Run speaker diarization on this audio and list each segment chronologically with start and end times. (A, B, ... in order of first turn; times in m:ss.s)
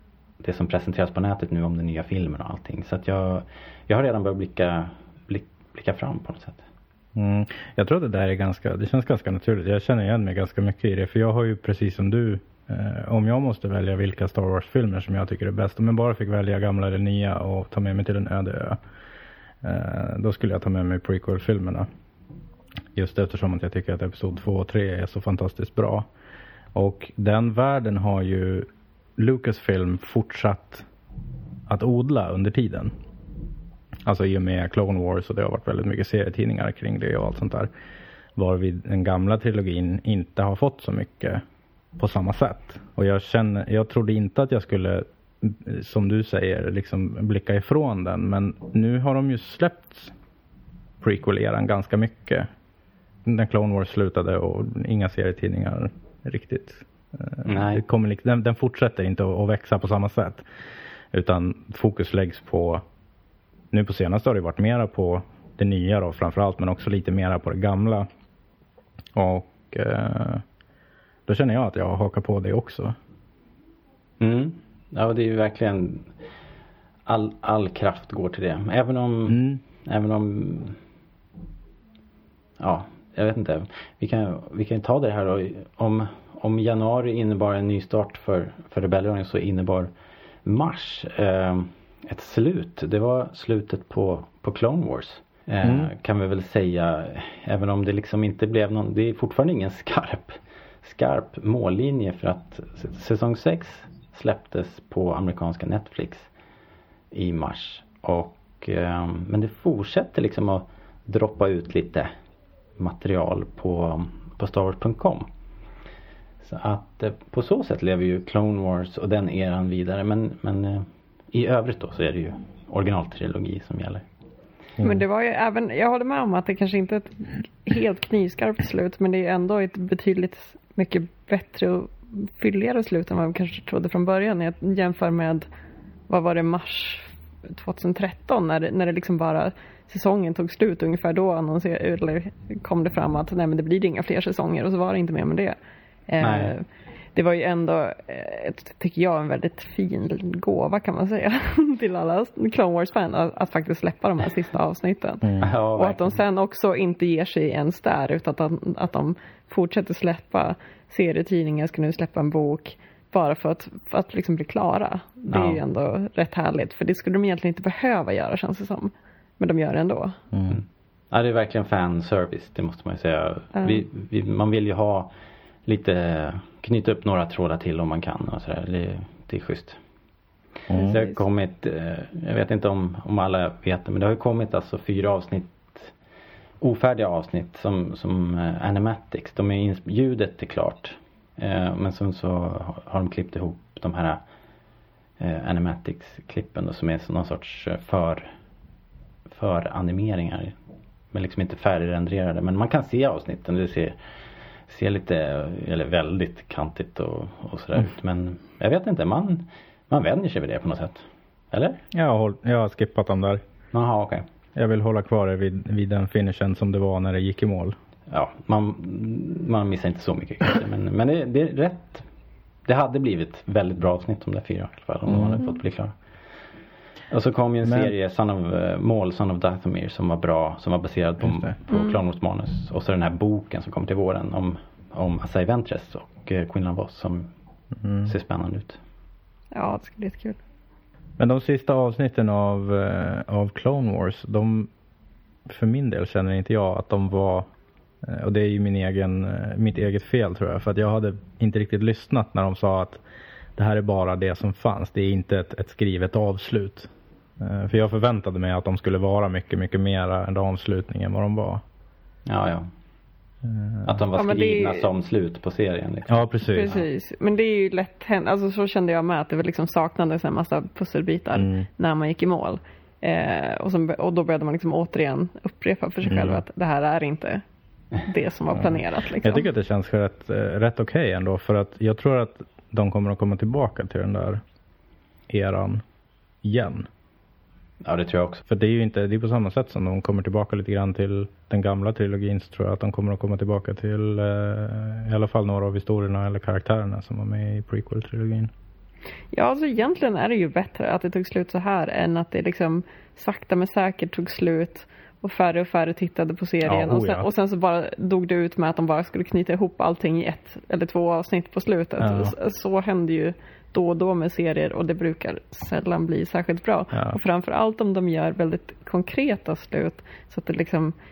0:00.4-0:06.6 A
0:07.2-0:18.8 B
0:19.6-0:21.9 B
0:22.9-0:26.1 B
0:26.7-0:30.8 B
0:31.7-0:32.9 B
0:34.0-0:37.7 B
0:38.4-0:41.4 B
0:42.0-0:50.1 B
0:51.0-0:52.5 B
0:53.2-1:00.4 B
0:57.4-0:57.8 A
1:01.1-1:02.8 B
1:03.7-1:08.1 B
1:09.1-1:10.4 B
1:11.3-1:13.0 B
1:14.2-1:16.1 A
1:17.1-1:20.8 A
1:19.3-1:19.6 B
1:22.6-1:29.9 A
1:30.4-1:46.3 A
1:35.6-1:35.9 B
1:47.1-1:52.1 A
1:52.8-1:55.3 A
1:56.4-2:04.0 A
2:04.8-2:15.4 C
2:16.1-2:25.6 C
2:26.1-2:26.6 C
2:26.2-2:26.5 A
2:27.1-2:50.2 C
2:35.2-2:35.5 B
2:35.4-2:36.2 A
2:45.3-2:45.6 A
2:50.3-2:50.6 B
2:50.5-2:55.1 A
2:53.6-2:53.8 C
2:55.6-2:59.8 A
3:00.7-3:01.0 B
3:00.8-3:01.2 C
3:00.9-3:05.9 A
3:06.6-3:14.2 A
3:15.2-3:18.3 A
3:19.3-3:20.5 A
3:21.1-3:24.0 A
3:24.7-3:31.8 A
3:31.9-3:33.4 B
3:33.7-3:34.2 A
3:34.5-3:37.8 B
3:38.1-3:42.0 A
3:42.7-3:45.9 A
3:45.1-3:45.4 B
3:47.1-3:57.3 A
3:47.6-3:47.9 B
3:51.2-3:51.5 B
3:51.7-3:52.0 C
3:57.8-3:58.1 B
3:58.0-3:58.8 A
3:59.5-4:00.4 C
4:01.2-4:04.7 B
4:05.5-4:07.5 B
4:08.0-4:13.0 B
4:13.6-4:21.6 B
4:22.2-4:22.7 A
4:23.4-4:24.0 B
4:23.8-4:26.8 A
4:24.2-4:24.9 C
4:26.1-4:26.8 B
4:26.5-4:37.4 C
4:31.3-4:31.7 B
4:36.0-4:36.4 B
4:38.0-4:39.5 C
4:38.5-4:44.4 B
4:45.3-4:45.8 B
4:46.4-4:46.9 B
4:47.8-4:48.4 A
4:48.5-4:58.5 B
4:59.3-5:20.9 C
5:06.6-5:07.3 B
5:12.0-5:12.3 B